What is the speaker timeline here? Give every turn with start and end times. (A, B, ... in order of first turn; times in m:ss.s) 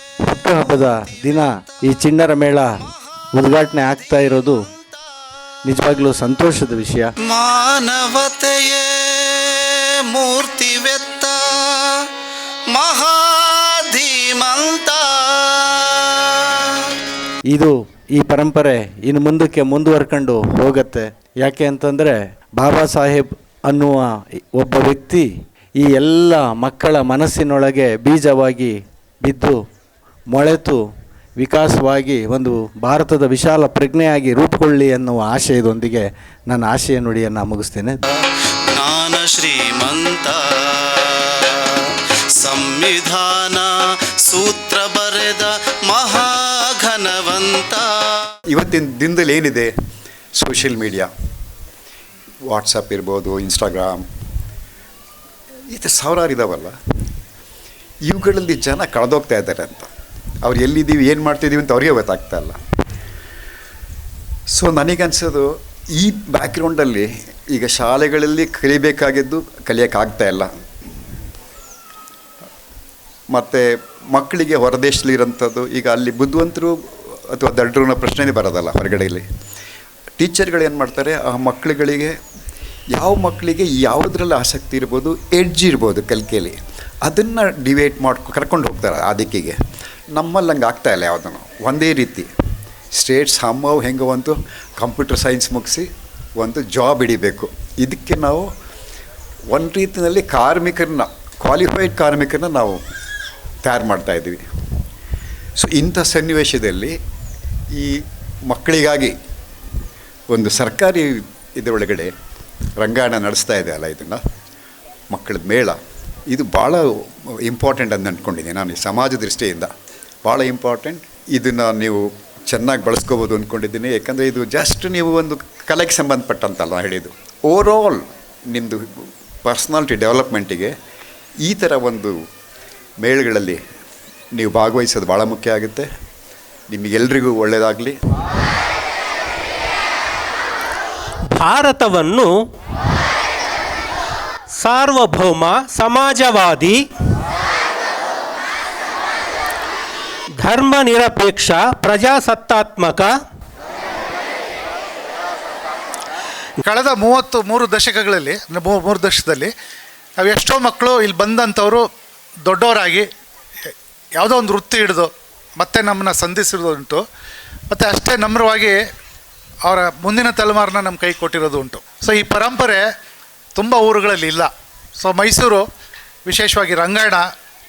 0:00.2-0:02.7 A
0:03.4-0:04.6 A
0:05.6-0:07.1 A
0:07.2-0:12.1 B
0:12.7-0:16.7 B
0:17.5-0:25.3 A
0:25.8-0:29.6 A
0:30.3-0:30.8 A
0:31.4-0:38.0 A
0:38.1-0:41.8 B
0:42.4-0:43.7 B
0:44.2-0:48.3 B
0:48.5-0:49.7 C
0:50.4-0:51.1 C
0:52.5-0:54.0 C
0:55.7-0:56.7 C
0:58.0-0:59.9 C
1:00.4-1:02.6 C
1:04.5-1:10.5 C
1:13.3-1:19.2 C
1:20.2-1:22.1 C
1:22.9-1:29.6 C
1:30.1-1:32.3 C
1:32.9-1:38.5 C
1:39.5-1:42.8 C
1:43.6-1:44.4 C
1:45.6-1:47.0 C
1:47.7-1:49.1 C
1:50.3-1:52.1 C
1:52.8-1:54.2 C
1:55.1-1:59.7 C
2:00.2-2:10.7 C
2:11.4-2:12.2 C
2:13.0-2:13.6 C
2:14.4-2:15.9 C
2:16.7-2:18.0 C
2:21.3-2:22.4 D
2:24.5-2:26.9 D
2:30.4-2:33.1 D
2:36.6-2:39.5 E
2:40.2-2:41.9 E
2:42.4-2:43.1 E
2:43.6-2:47.0 E
2:47.7-2:48.8 E
2:49.6-2:52.9 E
2:53.5-2:55.6 E
2:56.2-2:57.3 E